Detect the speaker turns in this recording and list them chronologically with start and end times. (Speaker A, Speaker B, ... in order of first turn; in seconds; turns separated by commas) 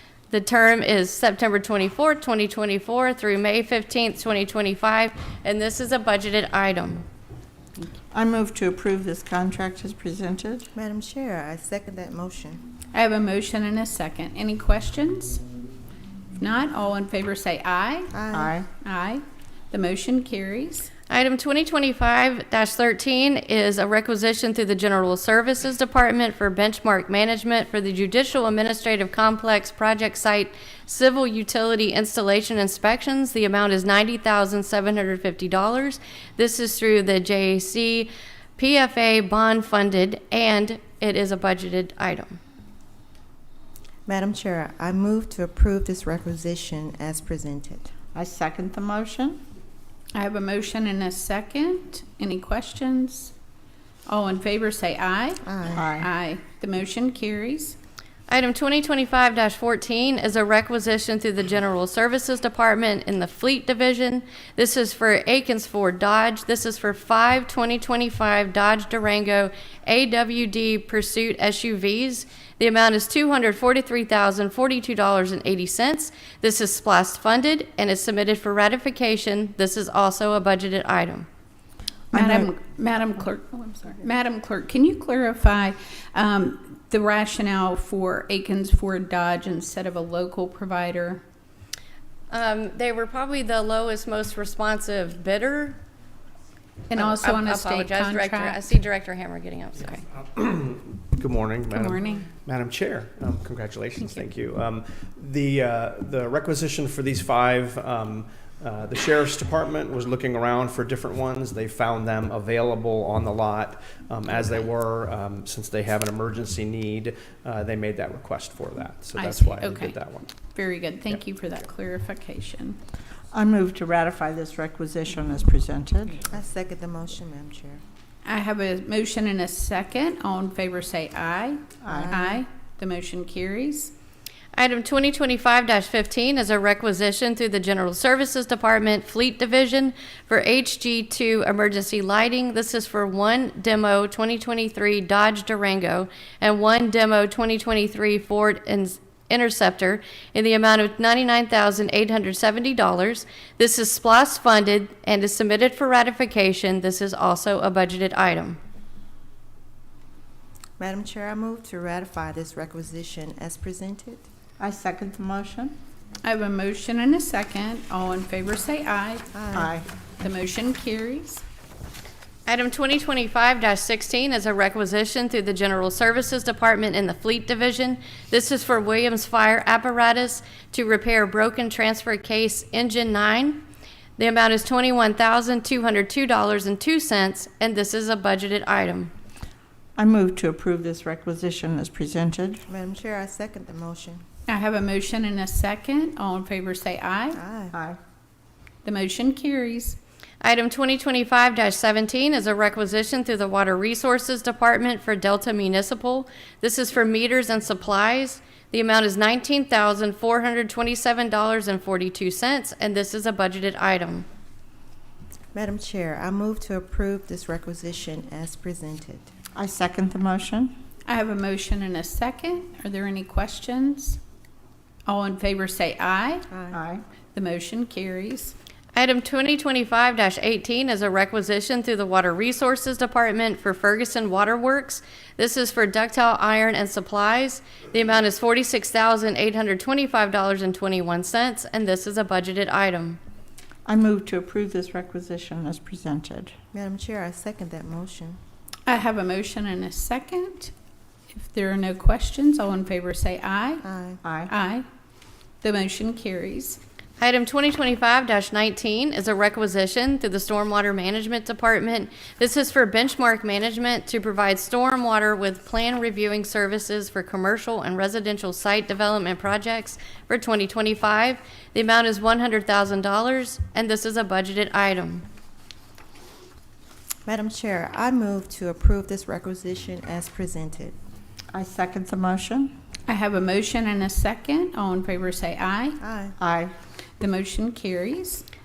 Speaker A: 0.3-7.0, Speaker B: 8.1-10.7, Speaker C: 10.7-12.6, Speaker D: 12.9-15.4, Speaker D: 16.4-18.2, Speaker C: 18.1-18.6, Speaker B: 18.3-18.7, Speaker D: 18.8-20.9, Speaker A: 21.1-42.4, Speaker C: 44.1-47.9, Speaker B: 48.1-49.4, Speaker D: 50.1-53.3, Speaker D: 54.1-57.8, Speaker C: 55.4-55.8, Speaker B: 55.7-56.1, Speaker A: 58.3-81.2, Speaker B: 82.1-82.5, Speaker D: 82.1-91.2, Speaker A: 92.3-95.8, Speaker D: 96.9-98.7, Speaker A: 96.9-100.0, Speaker E: 100.0-120.3, Speaker D: 101.8-102.2, Speaker D: 119.1-122.8, Speaker B: 123.3-126.2, Speaker C: 126.3-127.8, Speaker D: 128.2-133.9, Speaker B: 131.8-132.3, Speaker A: 134.6-158.6, Speaker C: 160.8-164.2, Speaker B: 164.6-165.7, Speaker D: 166.2-169.4, Speaker C: 169.3-169.8, Speaker B: 169.5-169.8, Speaker D: 170.2-171.4, Speaker A: 172.5-183.6, Speaker A: 184.2-189.1, Speaker B: 189.9-192.6, Speaker C: 192.7-194.2, Speaker D: 194.5-197.4, Speaker C: 197.3-197.8, Speaker B: 197.7-198.0, Speaker D: 198.8-200.0, Speaker A: 200.4-214.3, Speaker C: 215.5-219.3, Speaker B: 219.5-220.7, Speaker D: 221.1-224.2, Speaker D: 225.1-226.5, Speaker C: 226.5-226.8, Speaker B: 226.7-227.0, Speaker D: 227.3-228.5, Speaker A: 228.9-243.2, Speaker B: 243.8-246.5, Speaker C: 246.7-248.4, Speaker D: 248.9-250.7, Speaker D: 251.3-253.8, Speaker C: 253.8-254.2, Speaker B: 254.2-254.5, Speaker D: 254.5-254.8, Speaker D: 255.6-256.8, Speaker A: 257.2-275.2, Speaker C: 277.2-280.9, Speaker B: 281.5-282.7, Speaker D: 283.1-286.0, Speaker C: 286.0-286.4, Speaker B: 286.4-286.7, Speaker D: 287.2-288.4